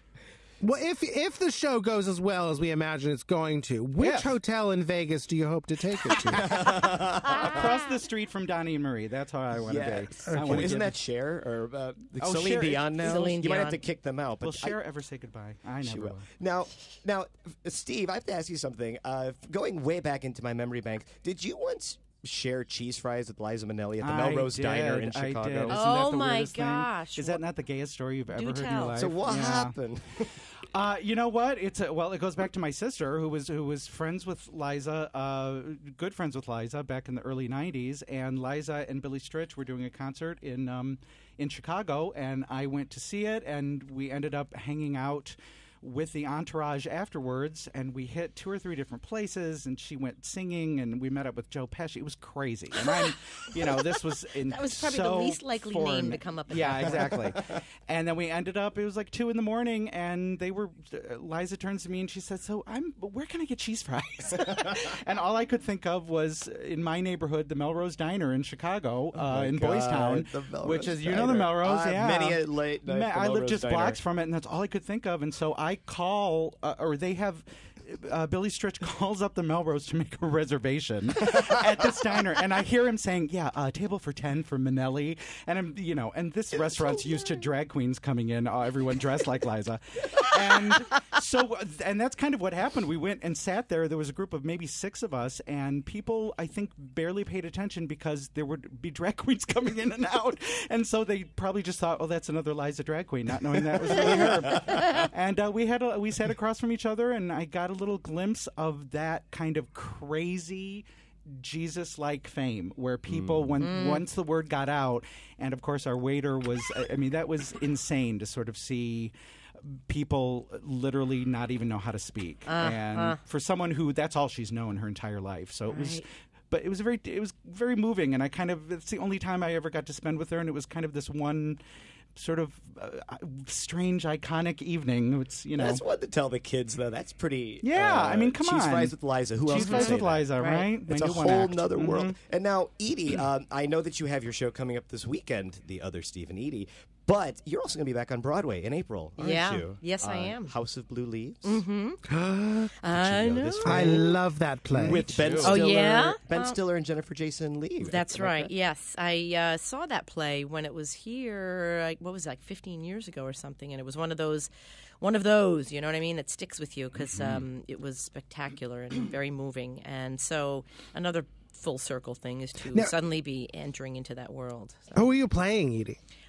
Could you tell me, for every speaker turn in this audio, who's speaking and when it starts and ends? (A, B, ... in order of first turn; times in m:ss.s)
0:00.6-0:06.6 A
0:04.0-0:04.3 B
0:06.3-0:07.7 C
0:07.3-0:07.7 D
0:07.3-0:11.0 B
0:09.5-0:14.8 C
0:10.3-0:10.7 A
0:12.2-0:13.0 B
0:13.0-0:13.8 D
0:14.4-0:16.3 B
0:15.8-0:25.8 C
0:24.0-0:29.7 B
0:25.7-0:27.4 D
0:28.3-0:29.0 D
0:28.9-0:30.3 C
0:30.6-2:11.6 B
0:52.8-0:54.0 D
0:54.5-0:57.2 D
0:56.9-0:57.5 C
1:09.1-1:14.0 C
1:43.6-1:45.1 C
1:44.7-1:45.0 D
1:53.1-1:53.5 C
1:53.6-1:54.0 D
2:02.5-2:03.2 D
2:05.7-2:06.0 D
2:12.1-2:15.8 B
2:15.6-2:20.3 C
2:17.6-2:22.2 B
2:19.5-2:20.7 D
2:20.8-2:31.6 C
2:29.2-2:30.5 D
2:31.4-2:32.0 D
2:32.1-2:32.7 A
2:32.8-2:34.1 D
2:32.9-2:34.1 C
2:33.6-2:35.1 A
2:34.7-2:38.5 C
2:34.8-2:35.6 B
2:35.4-2:36.6 D
2:37.8-2:44.5 D
2:45.0-2:55.1 D
2:47.1-2:47.4 B
2:54.9-2:56.0 A